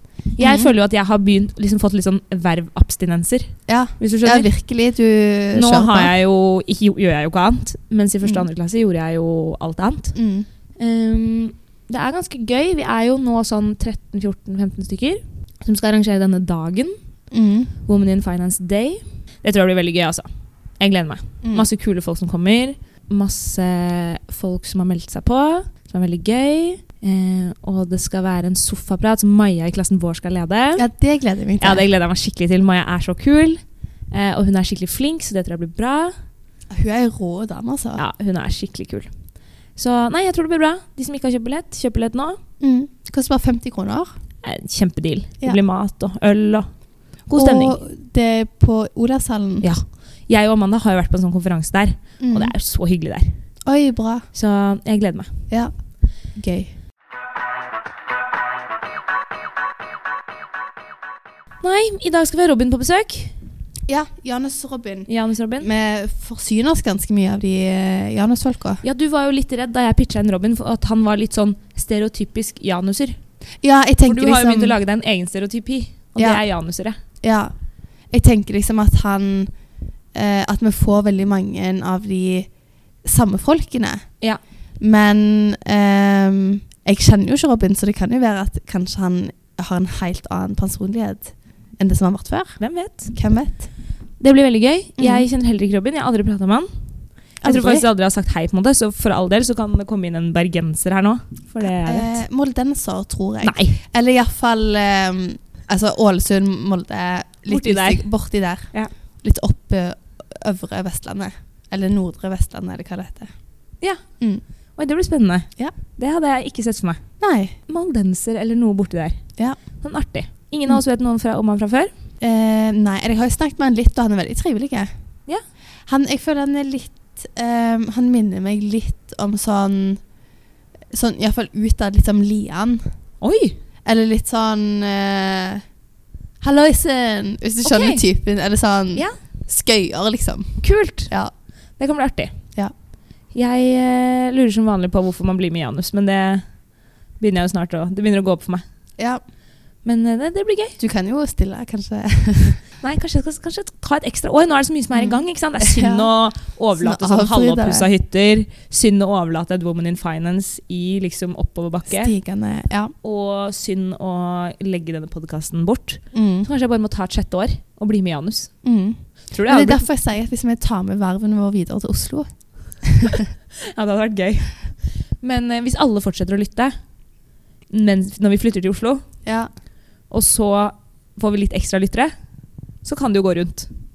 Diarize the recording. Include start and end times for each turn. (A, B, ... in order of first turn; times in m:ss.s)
0:00.4-0:04.5 A
0:00.4-0:00.7 B
0:03.7-0:06.1 B
0:05.5-0:10.2 A
0:10.2-0:10.5 B
0:10.8-0:17.0 A
0:17.3-0:17.7 B
0:17.8-0:20.3 A
0:20.8-0:30.9 A
0:21.4-0:21.7 B
0:30.8-0:31.9 B
0:31.6-0:36.2 A
0:36.7-0:38.0 B
0:38.0-0:39.1 A
0:39.7-0:42.4 A
0:42.6-0:44.1 B
0:44.4-0:47.8 A
0:47.4-0:49.7 B
0:49.6-0:53.4 A
0:52.2-0:52.5 B
0:53.6-0:54.3 B
0:54.3-0:55.3 A
0:56.3-0:56.7 B
1:01.6-1:03.4 A
1:03.9-1:08.8 B
1:05.1-1:05.7 A
1:08.8-1:13.2 A
1:13.6-1:14.8 B
1:14.1-1:17.0 A
1:16.2-1:16.4 B
1:17.2-1:17.5 B
1:18.1-1:19.5 B
1:20.1-1:22.5 B
1:23.0-1:24.2 B
1:24.8-1:33.7 B
1:32.6-1:33.2 A
1:34.2-1:36.7 A
1:35.0-1:35.3 B
1:37.4-1:42.2 A
1:37.4-1:37.8 B
1:41.6-1:53.3 B
1:43.4-1:43.8 A
1:47.5-1:48.9 A
1:54.8-1:57.0 A
1:57.2-1:57.6 B
1:57.7-2:01.9 A
2:02.2-2:04.9 B
2:05.9-2:10.0 B
2:10.9-2:12.9 B
2:13.2-2:13.6 A
2:13.8-2:15.6 B
2:16.4-2:21.3 B
2:17.6-2:18.0 A
2:20.6-2:21.1 A
2:21.8-2:22.4 A
2:23.3-2:26.5 A
2:27.2-2:28.6 A
2:29.8-2:30.8 A
2:30.8-2:32.6 B
2:32.8-2:42.1 A
2:34.9-2:36.1 B
2:36.8-2:37.9 B
2:41.9-2:42.9 B
2:43.0-2:48.6 A
2:46.1-2:46.5 B
2:48.6-2:53.3 B
2:49.3-2:49.8 A
2:53.7-2:56.8 A
2:57.7-2:59.1 A
2:59.2-2:59.5 B
3:00.1-3:02.2 A
3:02.8-3:03.7 A